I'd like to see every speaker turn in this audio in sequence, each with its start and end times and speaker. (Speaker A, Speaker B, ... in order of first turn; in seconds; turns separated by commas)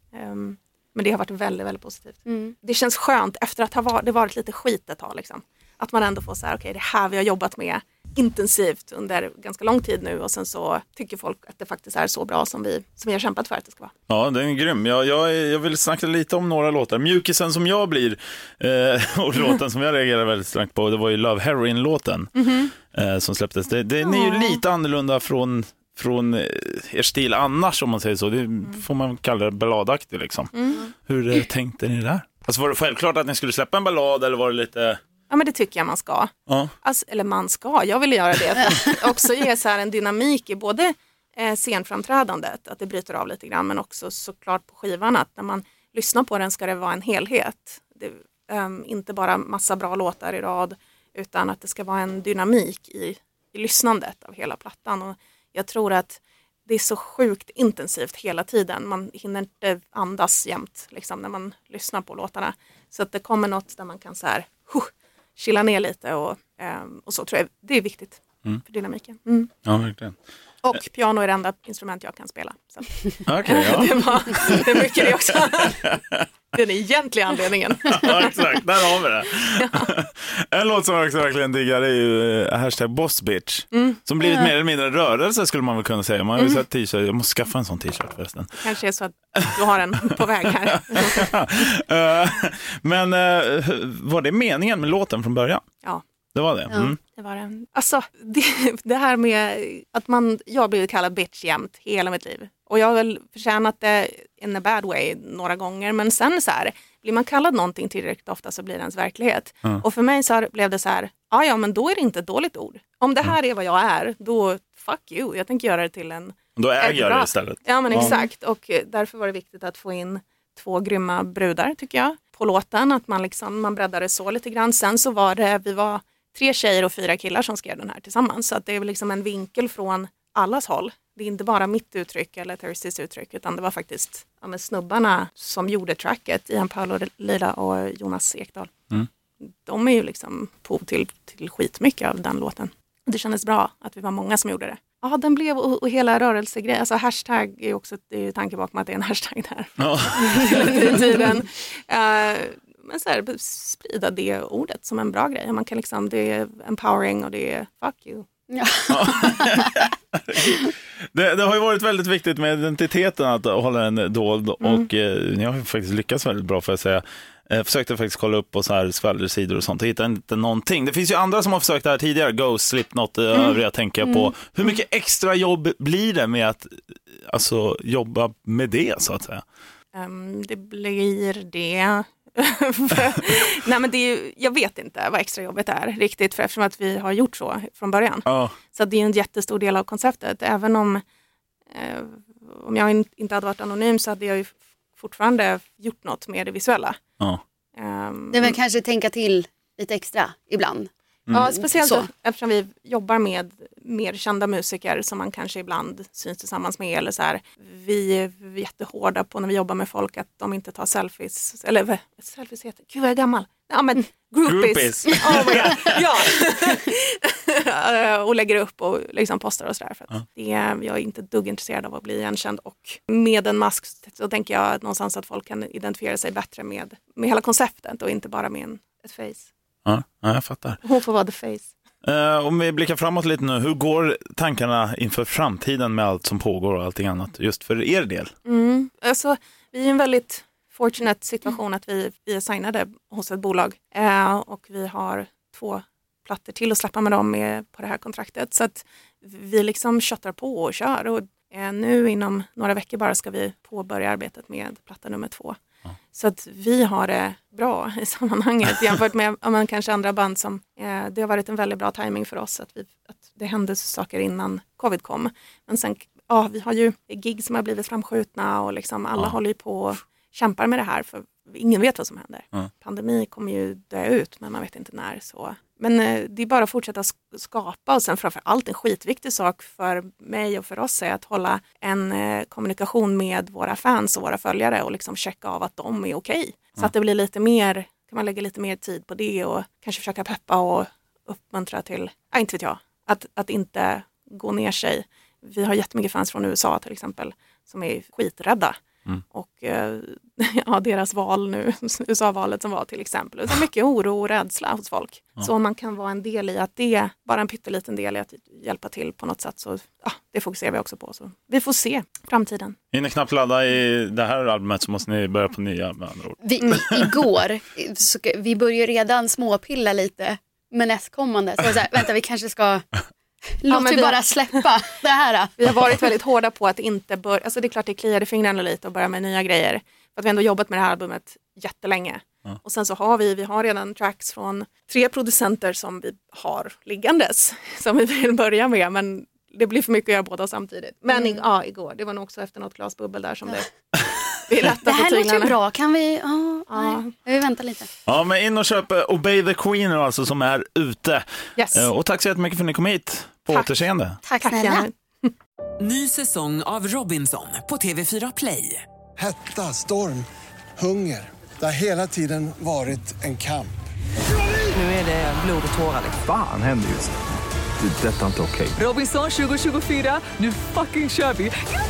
Speaker A: 0.1-13.9, Speaker B: 2.3-2.5, Speaker C: 14.1-30.5, Speaker A: 22.3-22.7, Speaker A: 24.0-24.6, Speaker A: 30.5-30.9, Speaker C: 31.0-35.0, Speaker A: 35.3-69.5, Speaker C: 36.5-36.7, Speaker C: 69.7-70.2, Speaker A: 70.6-75.8, Speaker C: 73.2-76.2, Speaker A: 76.5-78.5, Speaker C: 77.9-88.5, Speaker A: 79.6-79.9, Speaker A: 83.7-84.0, Speaker A: 86.4-86.6, Speaker A: 88.6-91.3, Speaker C: 91.0-95.6, Speaker C: 96.3-97.0, Speaker A: 97.1-138.7, Speaker C: 116.5-118.1, Speaker B: 117.9-118.3, Speaker A: 139.4-158.2, Speaker C: 149.8-150.8, Speaker B: 158.5-159.7, Speaker C: 158.9-179.4, Speaker A: 164.6-164.9, Speaker A: 173.3-173.6, Speaker A: 179.9-191.0, Speaker C: 188.2-188.5, Speaker A: 191.7-197.0, Speaker A: 197.8-198.6, Speaker B: 198.3-202.1, Speaker A: 201.3-229.5, Speaker C: 214.4-216.0, Speaker C: 229.8-230.8, Speaker A: 230.8-231.7, Speaker C: 232.0-238.3, Speaker A: 238.4-255.5, Speaker A: 256.1-298.7, Speaker A: 299.3-312.8, Speaker C: 312.9-317.2, Speaker B: 316.4-323.0, Speaker B: 323.6-325.8, Speaker A: 323.7-324.6, Speaker A: 325.6-343.7, Speaker B: 341.1-341.4, Speaker A: 344.5-345.5, Speaker B: 344.8-347.9, Speaker A: 346.7-347.1, Speaker C: 348.1-354.2, Speaker A: 351.6-351.9, Speaker A: 353.5-353.9, Speaker B: 354.2-354.8, Speaker A: 354.4-355.3, Speaker D: 355.8-358.8, Speaker E: 359.2-360.2, Speaker E: 360.8-363.7, Speaker D: 364.7-366.2, Speaker F: 366.1-367.1, Speaker F: 367.8-368.8, Speaker D: 368.8-371.6